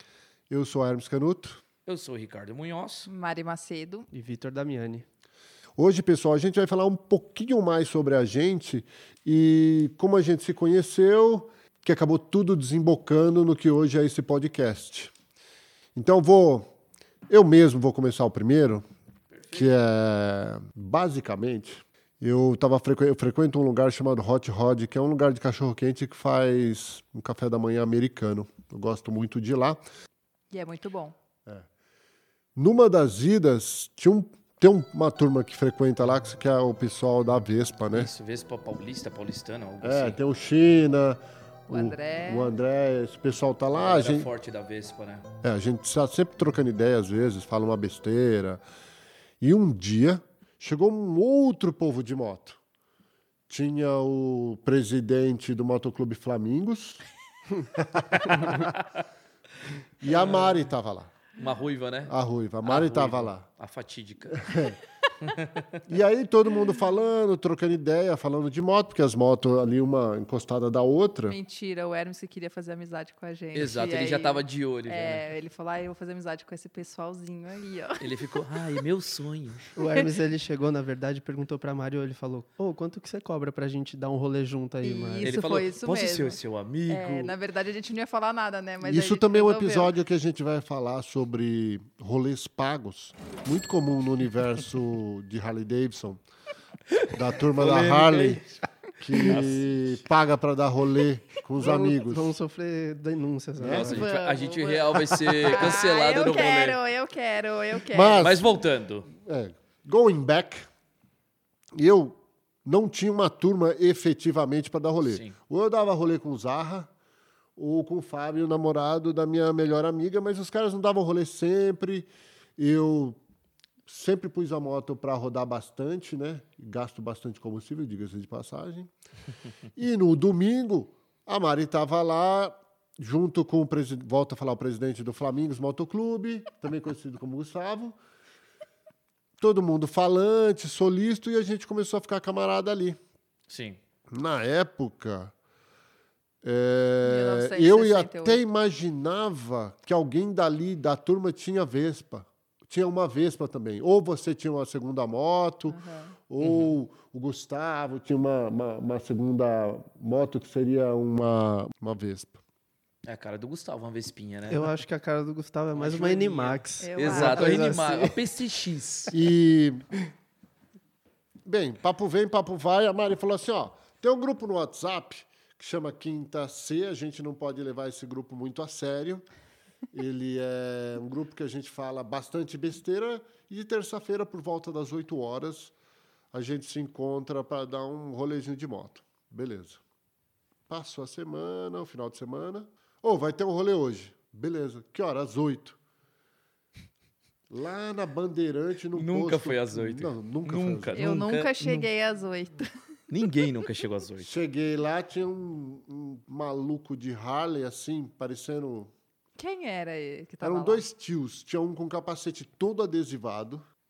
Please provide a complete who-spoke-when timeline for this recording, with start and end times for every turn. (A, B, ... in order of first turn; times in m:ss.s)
0:00.5-0:01.6 A
0:01.8-0:03.1 B
0:03.0-0:04.1 C
0:04.1-0:05.0 D
0:05.8-0:15.1 A
0:15.9-0:16.7 A
0:17.3-0:18.8 A
0:19.3-0:19.7 B
0:19.5-0:29.8 A
0:30.5-0:31.1 C
0:32.6-0:38.1 A
0:37.9-0:40.2 B
0:39.8-0:44.3 A
0:41.7-0:42.5 C
0:43.8-0:45.3 B
0:45.4-0:48.6 A
0:49.4-0:52.6 A
0:53.5-0:57.0 A
0:57.7-0:58.7 A
0:58.4-0:58.8 B
1:00.0-1:01.1 A
1:00.0-1:00.6 B
1:01.4-1:04.6 B
1:02.0-1:03.4 A
1:04.3-1:04.8 A
1:05.2-1:05.8 B
1:05.9-1:11.4 A
1:11.3-1:18.0 C
1:13.5-1:15.2 B
1:18.0-1:19.7 B
1:19.8-1:25.3 D
1:24.8-1:29.9 C
1:25.2-1:27.3 B
1:28.8-1:36.2 A
1:36.9-1:38.5 B
1:37.1-1:38.4 A
1:39.0-1:42.3 A
1:39.2-1:40.0 B
1:41.6-1:44.0 D
1:43.6-1:44.0 A
1:43.6-1:46.8 B
1:43.9-1:48.3 C
1:47.8-1:48.5 A
1:48.1-1:49.1 B
1:49.1-1:50.7 A
1:51.7-1:56.9 A
1:55.0-1:55.4 B
1:57.6-2:03.2 A
2:03.8-2:08.9 A
2:09.8-2:18.0 A
2:19.4-2:23.0 A
2:23.5-2:23.8 B
2:24.1-2:25.3 A
2:26.4-2:42.4 A
2:27.0-2:28.4 C
2:35.7-2:36.2 C
2:36.4-2:36.7 B
2:43.0-2:44.8 B
2:44.5-2:48.2 D
2:45.7-2:49.1 B
2:46.8-2:47.8 C
2:49.1-2:49.8 A
2:51.4-2:59.3 A
2:59.9-3:05.7 A
3:06.3-3:09.8 A
3:10.7-3:15.8 A
3:17.5-3:21.0 A
3:18.9-3:21.9 B
3:20.9-3:22.6 C
3:23.1-3:24.3 B
3:24.2-3:28.9 A
3:29.4-3:30.8 C
3:30.4-3:33.6 A